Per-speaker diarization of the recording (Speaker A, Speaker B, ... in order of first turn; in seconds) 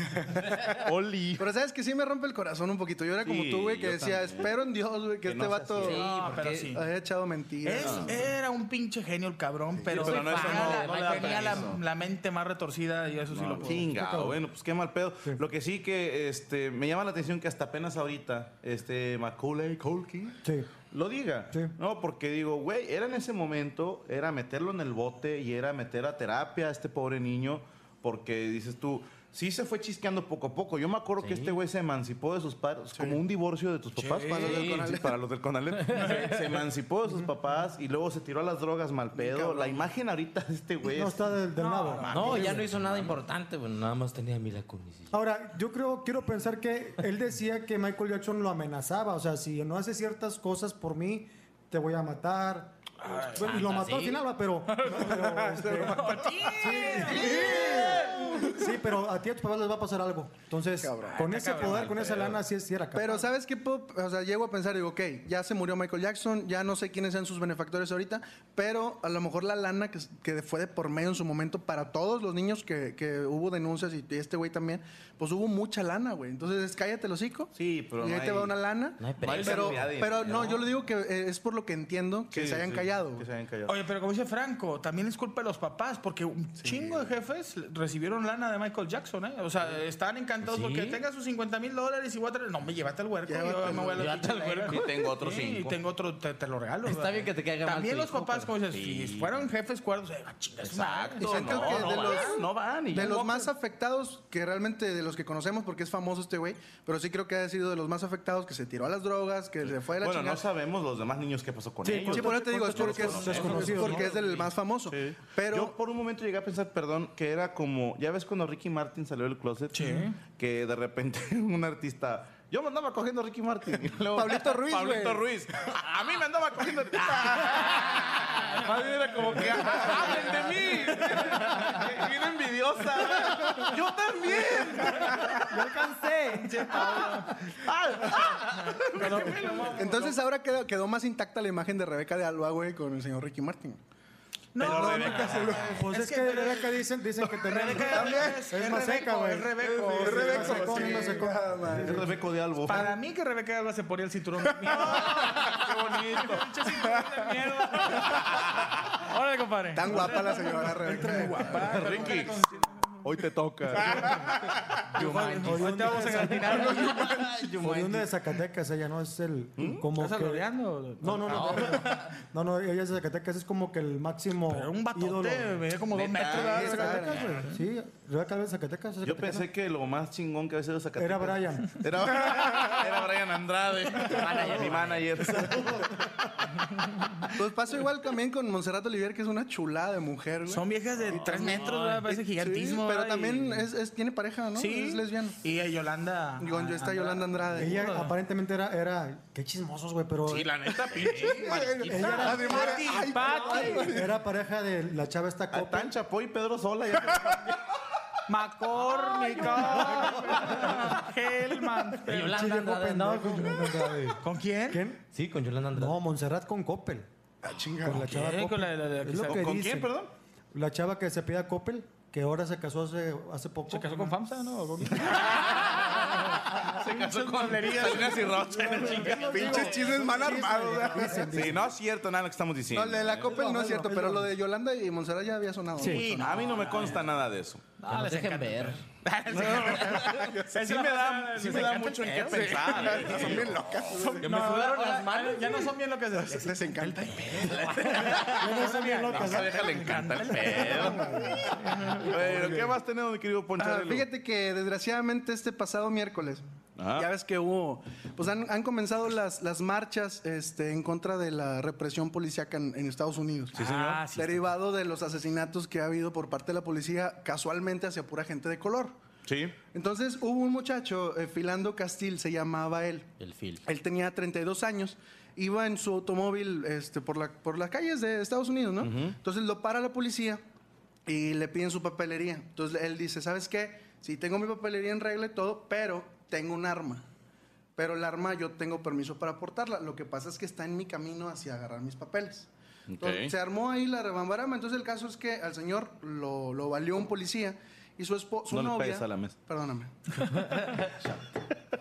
Speaker A: 0.1-0.9, 1.4-6.1, 6.7-8.2, 32.9-33.2, 34.3-35.1, 39.1-39.9, 57.1-58.5, 60.8-61.2, 62.9-83.2, 86.6-86.9, 93.2-94.1, 101.2-110.5, 112.0-115.8, 124.1-125.3, 133.3-133.7, 134.4-135.3, 139.8-143.8, 144.6-145.8, 147.7-148.9, 149.6-152.1, 159.7-162.0, 166.8-167.4, 176.3-177.4, 187.3-195.4, 196.4-197.9, 200.9-204.1, 217.4-218.1, 229.3-231.5, 232.7-236.6, 242.3-244.3, 246.1-247.6, 252.1-252.6, 253.6-256.4, 256.9-268.9, 269.7-273.1, 273.6-280.4, 281.1-287.0, 287.8-299.9
Speaker B: 0.6-1.5, 3.2-4.6, 5.2-6.0, 7.8-8.2, 9.9-11.8, 13.3-20.3, 20.9-41.3, 42.0-43.1, 77.5-78.6, 79.1-80.6, 82.3-83.8, 94.7-95.8, 98.7-99.4, 100.6-103.2, 110.0-114.2, 114.9-135.5, 137.6-139.9, 144.6-145.8, 147.4-148.2, 151.7-153.0, 154.9-156.6, 161.7-162.4, 163.0-164.3, 169.6-169.9, 175.9-176.8, 179.0-186.0, 191.1-191.8, 200.2-202.0, 205.5-207.5, 219.2-220.1, 225.1-225.8, 226.5-229.7, 231.2-233.3, 236.1-237.6, 239.3-243.9, 249.1-251.1, 252.0-254.1, 256.8-257.1, 263.5-264.0, 269.2-269.5, 278.8-279.2, 292.9-293.3, 298.5-299.4
Speaker C: 5.8-6.7, 9.9-11.8, 31.2-31.6, 34.4-34.9, 35.8-36.4, 42.1-45.2, 53.4-54.2, 79.0-80.5, 90.4-91.0, 94.0-95.1, 96.8-98.5, 113.4-114.0, 131.5-131.7, 164.9-168.1, 171.3-172.1, 184.0-185.5, 201.0-203.8, 212.1-214.0, 215.1-216.0, 237.8-238.8, 239.8-240.3, 244.2-245.7, 248.2-248.4, 273.2-273.6
Speaker D: 5.9-6.8, 7.6-13.9, 34.0-34.6, 35.9-36.4, 41.5-42.7, 53.0-53.9, 54.7-58.4, 61.0-62.3, 79.4-79.7, 83.7-103.5, 113.9-114.4, 119.7-120.2, 136.1-137.4, 138.9-140.2, 144.5-146.8, 147.5-151.3, 152.6-158.5, 159.0-163.0, 163.8-164.1, 164.9-167.2, 169.9-172.0, 174.5-177.6, 190.5-193.7, 194.5-198.0, 202.0-204.0, 208.3-212.5, 214.2-214.8, 217.9-219.8, 223.7-229.9, 235.8-237.1, 237.8-243.4, 244.0-252.6, 263.5-264.5
Speaker E: 13.8-14.4, 20.4-20.7, 40.9-42.1, 45.1-63.3, 111.8-114.1, 135.5-136.9, 145.7-152.2, 165.4-167.0, 167.6-170.4, 171.0-175.6, 176.5-179.4, 181.0-181.8, 197.5-200.5, 201.9-202.6, 203.9-205.9, 209.4-210.6, 212.2-215.0, 215.7-217.1, 217.8-219.9, 220.5-224.2, 228.7-231.6, 233.2-234.4, 248.4-249.7, 250.5-251.9